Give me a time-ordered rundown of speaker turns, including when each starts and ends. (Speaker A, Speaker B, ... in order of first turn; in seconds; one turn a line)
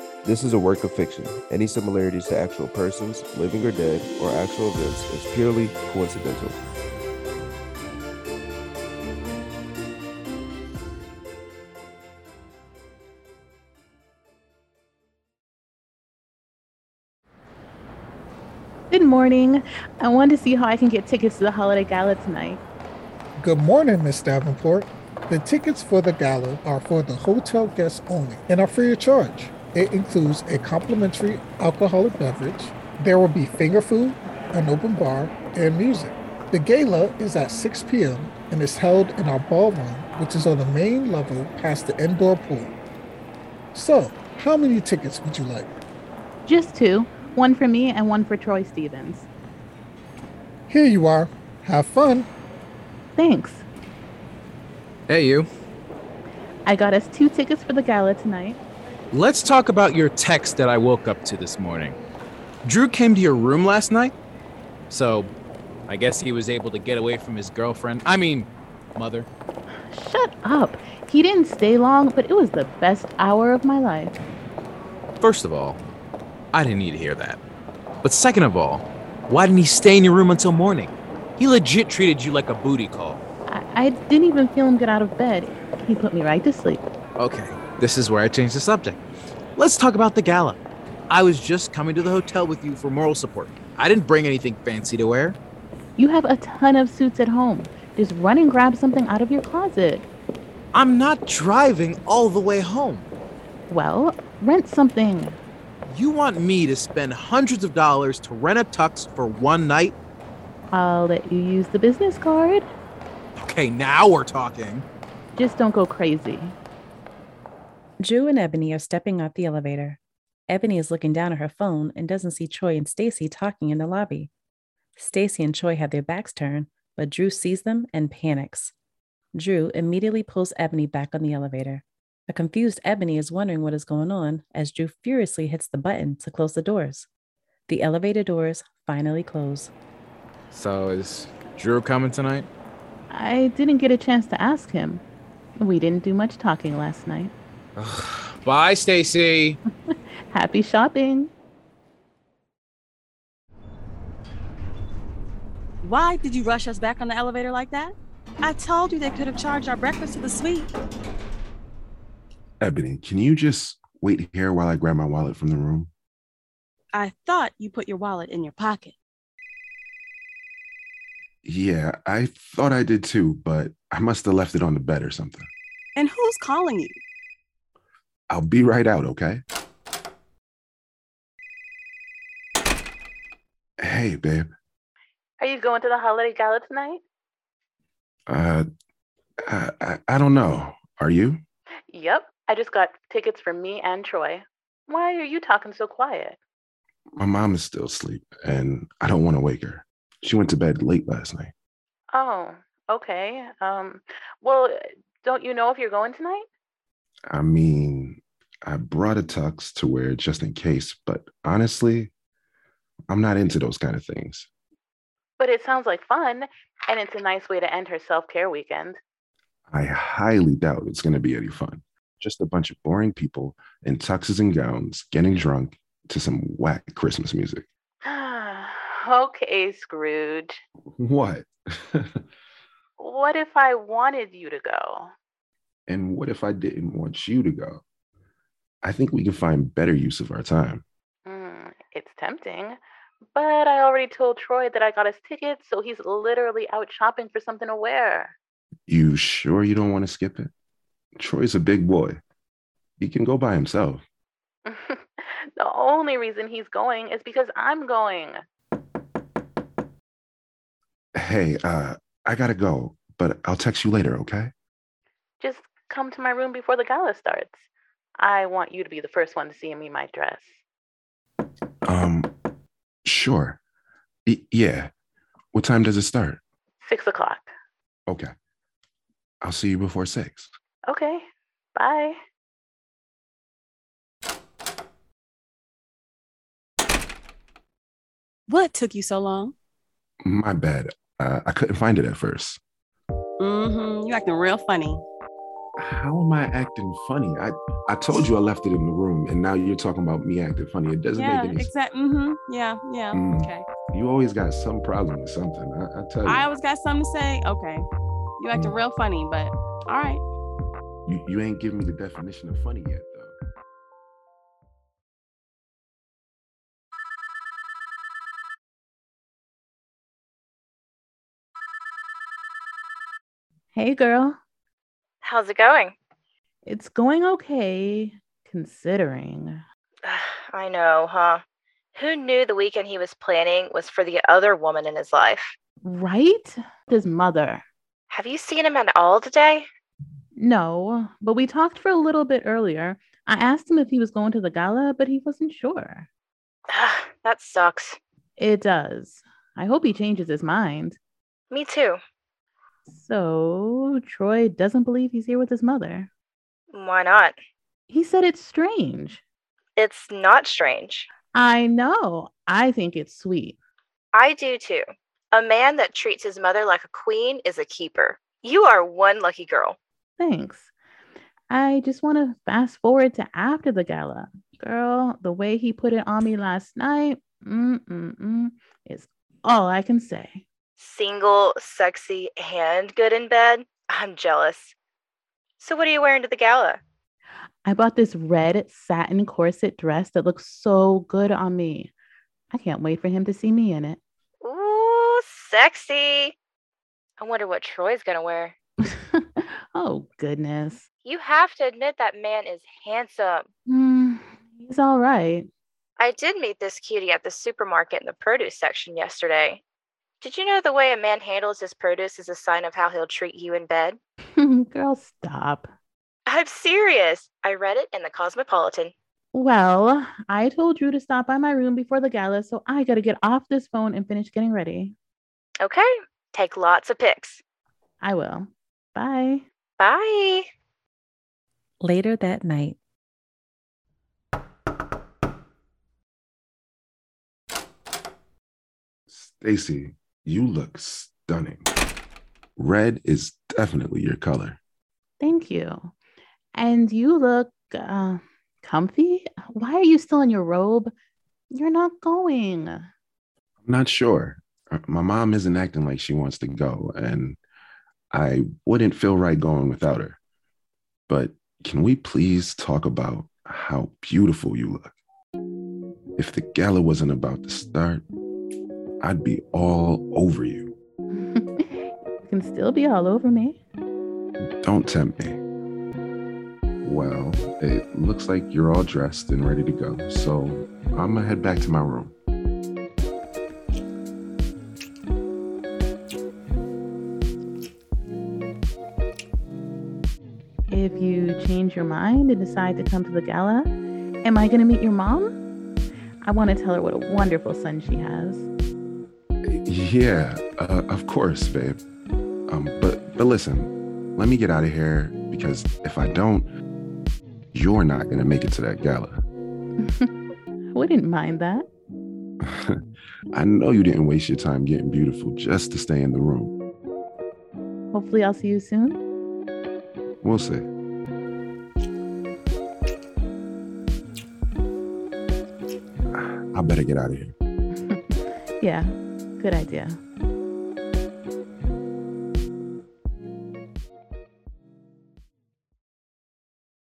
Speaker A: 0.2-6.6
Speaker B: 18.9-22.6
Speaker C: 23.4-42.7
Speaker C: 43.7-45.7
Speaker B: 46.5-49.3
Speaker C: 50.7-52.3
Speaker B: 53.2-53.6
Speaker D: 55.1-55.5
Speaker B: 56.7-58.6
Speaker D: 59.1-62.0
Speaker D: 62.6-64.1
Speaker D: 64.9-65.3
Speaker D: 65.9-69.3
Speaker B: 69.9-74.2
Speaker D: 75.2-75.8
Speaker D: 76.5-77.4
Speaker D: 78.0-83.2
Speaker B: 83.5-86.8
Speaker D: 87.2-89.0
Speaker D: 89.6-95.4
Speaker B: 96.0-100.1
Speaker D: 100.7-103.1
Speaker B: 103.7-105.4
Speaker D: 105.9-110.0
Speaker B: 110.7-112.7
Speaker D: 113.4-114.8
Speaker B: 115.3-116.6
Speaker E: 118.0-124.3
Speaker E: 125.0-128.7
Speaker E: 129.3-137.1
Speaker E: 137.7-139.7
Speaker D: 140.5-142.5
Speaker B: 143.1-145.0
Speaker B: 145.6-147.3
Speaker D: 147.8-149.6
Speaker B: 149.9-151.3
Speaker F: 155.8-160.7
Speaker G: 162.6-165.9
Speaker F: 166.9-168.9
Speaker G: 171.4-175.5
Speaker F: 176.0-177.0
Speaker G: 178.3-179.4
Speaker G: 183.8-184.5
Speaker B: 185.4-187.0
Speaker G: 188.3-188.7
Speaker G: 189.4-191.4
Speaker B: 191.9-196.4
Speaker G: 197.2-201.5
Speaker B: 202.1-206.5
Speaker G: 207.3-212.1
Speaker G: 213.1-214.5
Speaker B: 215.4-219.0
Speaker G: 219.7-227.7
Speaker B: 228.0-230.6
Speaker G: 231.0-232.2
Speaker B: 233.0-235.1
Speaker G: 235.9-237.8
Speaker G: 238.8-240.8
Speaker B: 241.3-242.8
Speaker B: 243.3-248.3
Speaker G: 248.9-250.5
Speaker G: 251.2-252.2
Speaker G: 253.0-254.0
Speaker B: 254.7-258.4
Speaker G: 261.1-264.5
Speaker B: 265.4-267.6
Speaker B: 268.2-270.5
Speaker G: 271.9-272.3
Speaker G: 273.1-273.6
Speaker G: 274.3-274.9
Speaker G: 275.5-276.4
Speaker B: 276.8-277.5
Speaker G: 278.1-278.3
Speaker G: 279.4-280.5
Speaker B: 280.9-282.2
Speaker F: 288.5-289.5
Speaker G: 290.2-292.6
Speaker F: 293.4-295.0
Speaker G: 295.8-301.7
Speaker F: 301.2-303.7
Speaker G: 303.1-306.5
Speaker F: 306.2-307.9
Speaker F: 308.4-310.2
Speaker G: 308.5-308.8
Speaker G: 311.1-313.4
Speaker B: 323.7-324.4
Speaker H: 325.2-325.9
Speaker B: 326.7-329.6
Speaker H: 330.0-331.4
Speaker H: 331.9-335.6
Speaker B: 335.8-337.6
Speaker H: 338.1-339.7
Speaker B: 340.4-346.1
Speaker H: 346.7-348.0
Speaker B: 348.4-351.0
Speaker H: 351.5-352.0
Speaker B: 352.9-356.1
Speaker H: 356.7-357.4
Speaker B: 357.9-359.2
Speaker H: 359.8-361.1
Speaker B: 361.3-363.6
Speaker H: 364.1-369.8
Speaker B: 370.2-370.7
Speaker B: 371.5-380.4
Speaker H: 380.8-384.7
Speaker H: 385.6-386.8
Speaker B: 387.6-391.9
Speaker B: 392.5-394.0
Speaker H: 394.4-396.4
Speaker H: 397.2-398.6
Speaker B: 398.9-400.9
Speaker H: 401.1-403.5
Speaker B: 403.7-405.5
Speaker H: 406.0-409.6
Speaker H: 410.2-414.0
Speaker B: 414.4-415.7
Speaker H: 416.3-418.9
Speaker B: 419.3-424.9
Speaker H: 425.6-427.4
Speaker B: 428.0-429.4
Speaker H: 429.8-430.5
Speaker E: 431.8-432.8
Speaker G: 439.1-441.7
Speaker G: 442.6-444.6
Speaker B: 445.2-445.9
Speaker B: 446.6-450.9
Speaker B: 451.5-452.9
Speaker G: 453.6-457.4
Speaker G: 458.1-460.2
Speaker G: 461.1-464.9
Speaker G: 466.2-468.1
Speaker G: 469.0-470.7
Speaker B: 471.1-473.6
Speaker G: 474.6-475.4
Speaker G: 476.8-482.1
Speaker B: 490.7-493.7
Speaker B: 494.2-495.3
Speaker B: 496.2-498.5
Speaker G: 499.5-501.8
Speaker G: 502.5-506.5
Speaker G: 507.5-509.2
Speaker B: 509.8-510.1
Speaker B: 510.7-511.7
Speaker G: 512.4-512.8
Speaker G: 513.3-516.5
Speaker B: 517.9-519.0
Speaker G: 520.2-520.7
Speaker G: 526.1-527.4
Speaker B: 527.8-530.0